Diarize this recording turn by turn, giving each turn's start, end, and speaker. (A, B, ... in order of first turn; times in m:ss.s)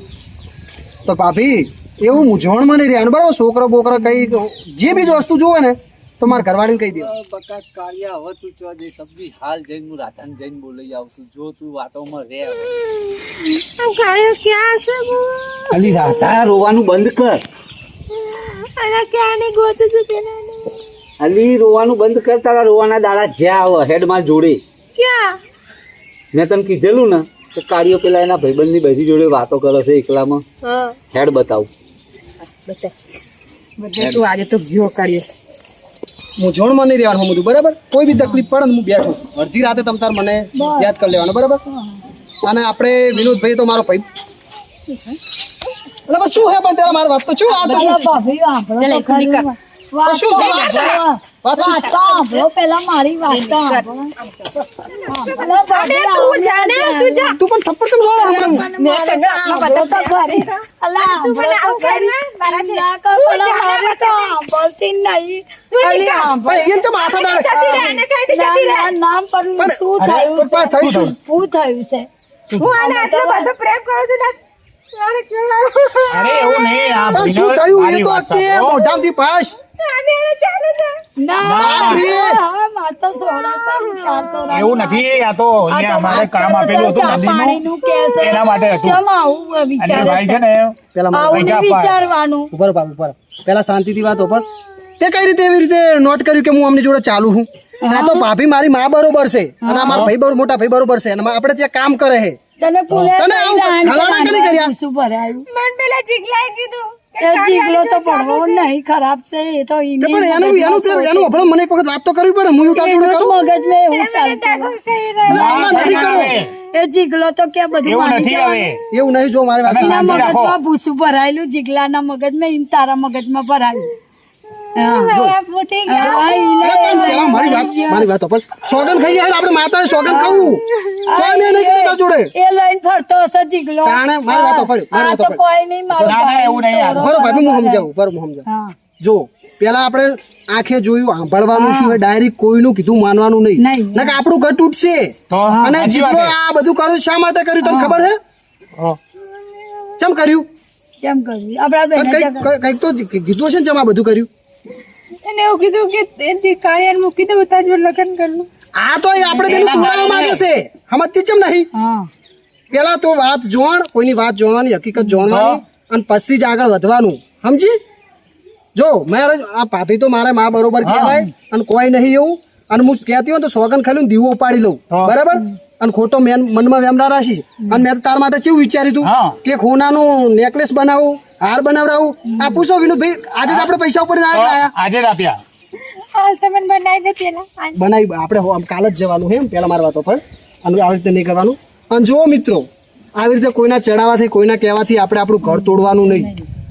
0:01.0-0:07.1 A
0:06.9-0:12.8 B
0:12.6-0:16.2 C
0:15.7-0:17.4 B
0:18.1-0:20.8 C
0:21.2-0:24.6 B
0:25.0-0:25.4 C
0:26.3-0:30.4 B
0:30.6-0:31.0 C
0:31.1-0:31.7 B
0:32.4-0:32.9 C
0:33.8-0:35.2 C
0:36.4-0:41.6 A
0:40.6-0:40.9 D
0:41.7-0:42.0 D
0:42.4-0:44.0 A
0:44.9-0:45.1 D
0:46.1-0:48.1 A
0:47.5-0:53.9 D
0:48.8-0:49.5 C
0:50.0-0:51.9 A
0:50.3-0:51.0 C
0:51.6-0:52.4 C
0:53.2-0:57.4 C
0:55.1-0:57.4 D
0:57.4-0:58.6 A
0:58.2-1:06.6 D
0:58.2-1:04.4 C
1:05.7-1:08.9 C
1:06.4-1:07.9 A
1:07.5-1:12.1 D
1:10.0-1:11.1 E
1:10.4-1:11.1 A
1:12.5-1:12.7 E
1:12.6-1:14.4 C
1:12.8-1:13.5 D
1:14.9-1:17.1 C
1:16.1-1:18.9 E
1:17.1-1:19.6 A
1:19.8-1:21.0 C
1:21.2-1:25.2 D
1:21.4-1:22.1 E
1:21.6-1:22.4 A
1:24.5-1:27.6 E
1:25.7-1:30.4 D
1:28.2-1:29.0 E
1:29.8-1:30.8 E
1:30.9-1:31.7 A
1:31.1-1:32.5 D
1:31.3-1:32.0 E
1:32.5-1:34.4 A
1:35.0-1:42.4 A
1:37.8-1:38.3 D
1:39.6-1:40.0 D
1:39.9-1:40.1 E
1:42.6-1:45.4 D
1:42.9-1:44.7 A
1:45.5-1:48.7 C
1:47.2-1:51.5 D
1:50.0-1:53.3 A
1:52.7-1:54.8 D
1:53.7-1:56.0 C
1:55.3-1:56.4 A
1:55.3-1:56.5 E
1:55.4-1:58.7 D
1:57.8-1:58.8 E
1:58.9-2:00.4 A
1:59.6-2:00.6 E
1:59.8-2:03.9 D
2:04.8-2:05.1 D
2:04.8-2:06.6 C
2:05.9-2:08.1 D
2:06.0-2:10.6 A
2:10.0-2:10.5 D
2:10.2-2:11.1 C
2:11.1-2:17.9 D
2:11.1-2:12.3 A
2:13.8-2:16.2 A
2:16.0-2:17.1 E
2:17.0-2:18.4 A
2:18.5-2:18.7 D
2:19.0-2:28.2 A
2:21.5-2:22.0 D
2:23.6-2:24.2 D
2:25.3-2:26.4 E
2:25.5-2:25.7 D
2:27.6-2:28.0 D
2:30.0-2:30.4 A
2:31.0-2:32.5 D
2:32.0-2:34.3 A
2:35.2-2:38.5 C
2:38.7-2:41.7 A
2:39.4-2:40.4 E
2:41.8-2:42.1 D
2:42.7-2:47.7 A
2:45.3-2:45.6 E
2:48.7-3:04.7 A
2:50.8-2:51.3 E
2:54.9-2:55.2 E
2:59.0-2:59.4 E
3:03.4-3:03.7 E
3:04.3-3:05.4 E
3:05.8-3:07.8 C
3:07.8-3:16.3 A
3:15.5-3:16.4 D